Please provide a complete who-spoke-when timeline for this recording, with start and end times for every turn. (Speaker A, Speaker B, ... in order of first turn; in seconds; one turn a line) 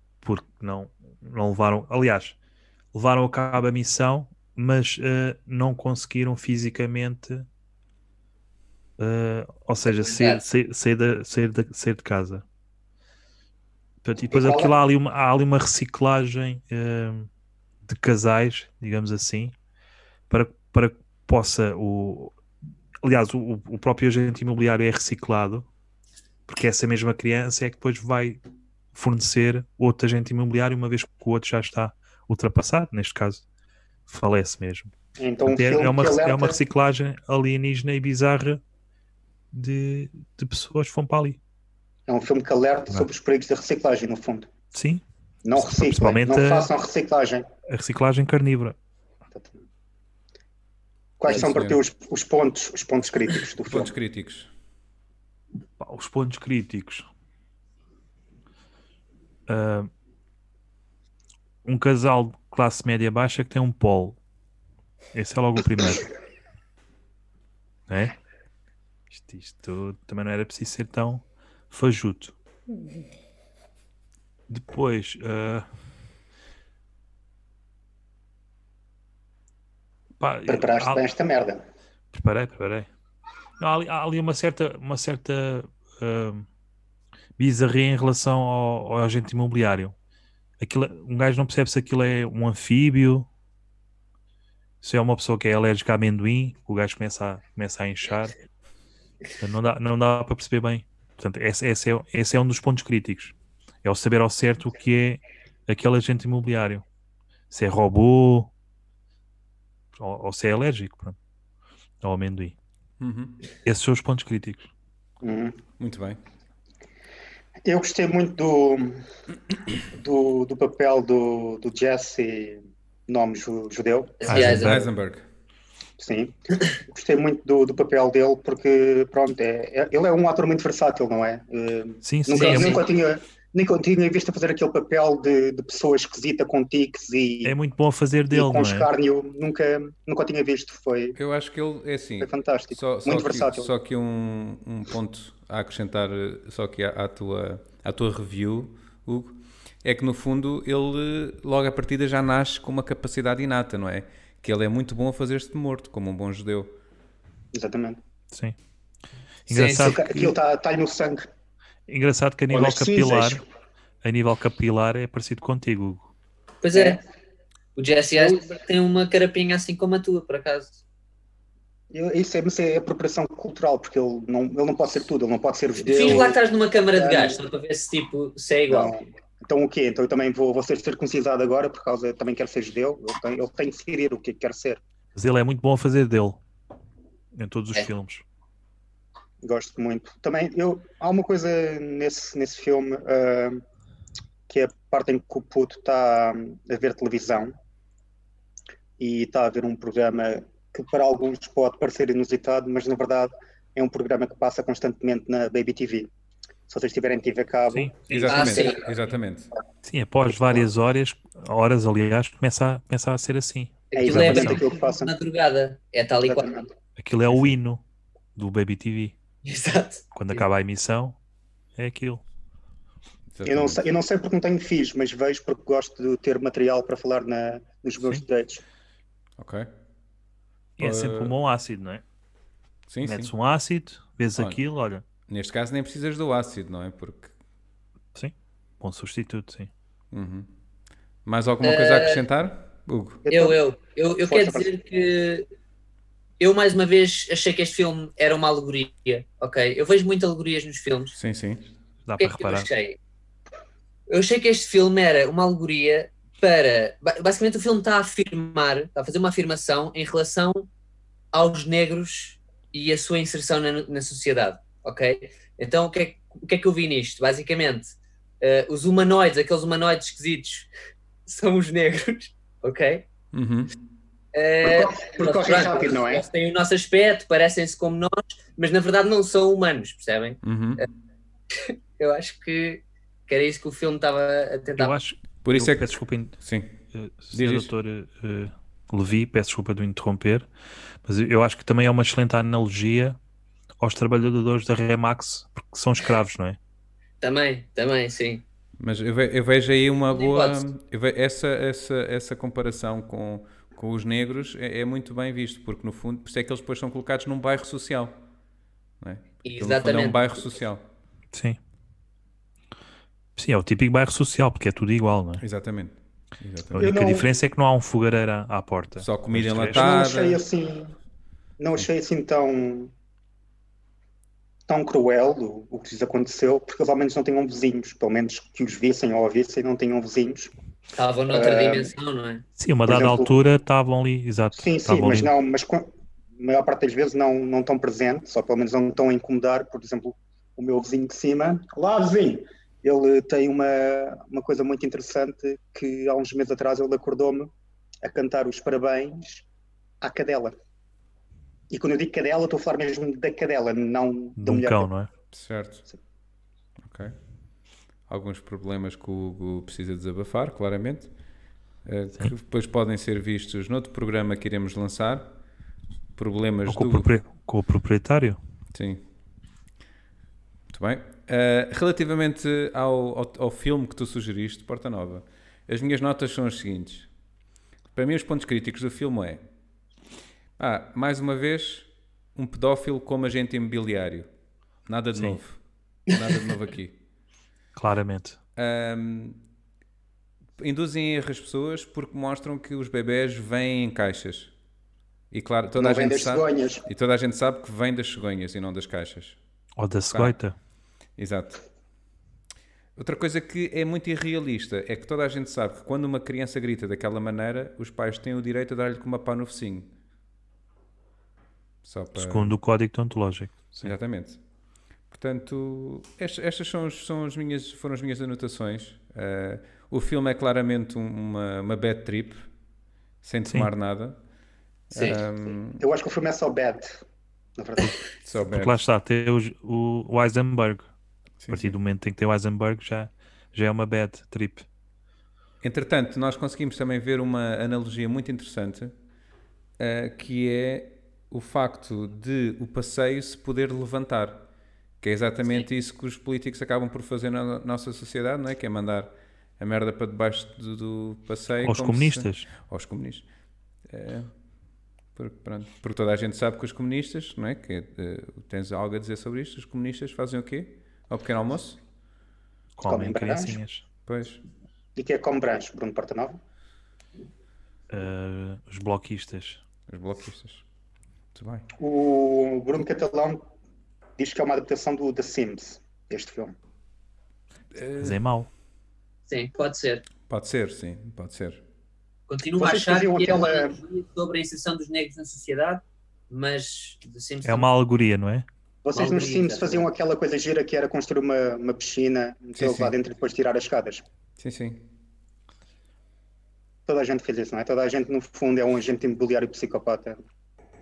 Speaker A: 0.2-2.4
Speaker A: 2.9-7.5
Speaker A: 9.0-12.4
Speaker B: 9.8-10.4
Speaker A: 14.0-17.3
Speaker C: 14.3-14.8
Speaker A: 17.9-19.6
Speaker A: 20.3-22.4
Speaker A: 23.0-25.7
Speaker A: 26.5-28.4
Speaker A: 28.9-33.5
Speaker A: 34.1-34.9
Speaker C: 35.2-36.6
Speaker A: 35.5-38.6
Speaker A: 39.5-41.4
Speaker C: 42.1-44.5
Speaker A: 44.7-45.0
Speaker C: 45.4-47.5
Speaker A: 45.6-46.7
Speaker A: 47.7-48.8
Speaker C: 49.3-49.6
Speaker C: 51.2-53.9
Speaker D: 51.3-51.8
Speaker D: 53.7-54.5
Speaker A: 55.8-57.1
Speaker A: 59.5-59.9
Speaker A: 61.6-64.2
Speaker A: 65.1-66.1
Speaker A: 67.9-68.2
Speaker A: 69.1-72.3
Speaker A: 74.5-75.7
Speaker A: 80.2-81.0
Speaker C: 80.5-81.6
Speaker A: 82.1-82.9
Speaker A: 83.6-86.5
Speaker A: 87.4-90.0
Speaker A: 90.6-93.3
Speaker A: 94.8-98.3
Speaker A: 99.4-106.8
Speaker A: 107.5-108.5
Speaker A: 109.9-111.2
Speaker A: 112.0-112.6
Speaker D: 113.0-113.4
Speaker A: 113.7-114.7
Speaker C: 115.2-115.6
Speaker D: 115.8-116.2
Speaker C: 117.7-119.0
Speaker C: 119.9-124.5
Speaker B: 124.2-124.8
Speaker A: 124.3-124.9
Speaker D: 124.3-125.2
Speaker C: 126.0-137.6
Speaker A: 132.0-132.8
Speaker B: 132.3-132.8
Speaker A: 137.4-138.9
Speaker C: 138.3-141.2
Speaker D: 141.2-156.7
Speaker C: 142.2-143.7
Speaker C: 157.5-158.0
Speaker A: 159.5-160.4
Speaker B: 159.5-160.0
Speaker C: 159.7-161.3
Speaker A: 161.9-163.4
Speaker C: 162.5-163.4
Speaker A: 164.0-166.1
Speaker B: 166.6-167.0
Speaker C: 166.7-167.0
Speaker B: 167.8-170.8
Speaker C: 168.1-168.4
Speaker C: 171.9-176.4
Speaker B: 175.9-179.0
Speaker C: 176.9-177.4
Speaker C: 178.7-184.8
Speaker A: 185.2-186.4
Speaker A: 187.3-188.2
Speaker C: 189.4-193.6
Speaker C: 194.5-197.6
Speaker C: 199.0-206.1
Speaker C: 206.7-208.8
Speaker D: 208.1-209.5
Speaker B: 208.3-208.8
Speaker A: 209.8-214.6
Speaker B: 213.9-216.6
Speaker C: 213.9-215.1
Speaker C: 216.2-216.7
Speaker A: 217.0-217.8
Speaker A: 218.4-219.2
Speaker B: 219.4-220.4
Speaker A: 220.1-221.2
Speaker A: 221.8-222.2
Speaker D: 223.3-223.8
Speaker C: 223.4-228.6
Speaker D: 229.4-229.7
Speaker A: 230.8-232.0
Speaker D: 230.8-231.4
Speaker D: 232.9-233.3
Speaker A: 233.0-235.0
Speaker D: 234.4-234.6
Speaker D: 235.3-237.3
Speaker A: 238.1-239.7
Speaker D: 240.1-240.5
Speaker D: 241.3-243.3
Speaker B: 241.6-242.2
Speaker C: 243.2-243.6
Speaker B: 243.3-245.5
Speaker C: 244.2-244.7
Speaker B: 246.4-251.2
Speaker D: 251.2-251.7
Speaker A: 252.1-252.7
Speaker B: 252.2-253.0
Speaker B: 254.1-260.7
Speaker B: 261.3-270.7
Speaker B: 271.3-273.0
Speaker D: 273.3-273.7
Speaker B: 274.3-280.4
Speaker C: 274.6-276.3
Speaker D: 280.4-280.9
Speaker B: 281.5-284.9
Speaker A: 284.8-286.4
Speaker D: 285.4-286.8
Speaker A: 286.9-290.5
Speaker D: 287.3-287.7
Speaker A: 291.0-293.2
Speaker A: 293.8-296.6
Speaker B: 297.2-298.4
Speaker D: 298.8-308.2
Speaker B: 300.1-300.6
Speaker D: 309.0-310.8
Speaker B: 309.4-310.2
Speaker A: 311.3-311.6
Speaker A: 313.4-315.4
Speaker D: 315.4-316.9
Speaker A: 316.7-319.8
Speaker C: 316.8-317.3
Speaker D: 319.0-320.4
Speaker C: 319.7-320.9
Speaker C: 321.6-322.9
Speaker C: 324.7-330.5
Speaker B: 330.9-332.4
Speaker C: 331.3-331.9
Speaker A: 332.6-335.3
Speaker C: 332.9-333.3
Speaker C: 334.6-347.5
Speaker C: 348.0-349.4
Speaker C: 350.0-350.5
Speaker C: 351.7-354.9
Speaker A: 354.4-355.1
Speaker D: 355.3-355.9
Speaker D: 356.8-357.2
Speaker D: 358.1-361.1
Speaker D: 361.9-365.3
Speaker D: 366.2-367.1
Speaker A: 366.7-368.4
Speaker D: 368.7-369.0
Speaker D: 370.7-377.1
Speaker D: 377.9-379.4
Speaker D: 380.6-384.3
Speaker D: 384.9-387.0
Speaker A: 385.2-385.4
Speaker A: 387.8-388.4
Speaker D: 388.6-389.4
Speaker D: 390.6-394.5
Speaker D: 395.3-399.4
Speaker C: 395.8-396.9
Speaker A: 399.8-400.6
Speaker D: 400.1-400.4
Speaker D: 401.2-401.6
Speaker D: 403.0-409.9
Speaker D: 411.8-412.5
Speaker A: 412.1-413.9
Speaker D: 413.8-414.4
Speaker D: 415.1-422.5
Speaker D: 423.2-424.2
Speaker A: 423.4-423.7
Speaker D: 424.9-425.8
Speaker B: 424.9-425.2
Speaker C: 425.8-427.0
Speaker C: 427.6-428.1
Speaker D: 428.2-428.8
Speaker A: 428.5-430.9
Speaker D: 431.4-431.7
Speaker A: 431.5-434.7
Speaker D: 435.6-438.9
Speaker D: 439.8-444.5
Speaker D: 445.0-453.3
Speaker A: 451.6-452.5
Speaker D: 453.9-454.3
Speaker D: 455.2-461.8
Speaker A: 462.8-463.8
Speaker C: 462.9-463.6
Speaker D: 464.1-464.4
Speaker C: 465.0-466.4
Speaker A: 467.9-469.6
Speaker D: 469.9-470.6
Speaker D: 471.3-471.7
Speaker C: 471.8-473.5
Speaker C: 474.2-476.6
Speaker D: 477.7-478.2
Speaker A: 478.0-478.5
Speaker B: 479.3-480.1
Speaker D: 480.3-481.6
Speaker B: 482.3-487.7
Speaker C: 482.6-483.8
Speaker A: 487.4-488.5
Speaker C: 488.8-494.0
Speaker B: 488.9-489.9
Speaker D: 492.6-492.9
Speaker D: 494.4-494.9
Speaker C: 496.9-500.2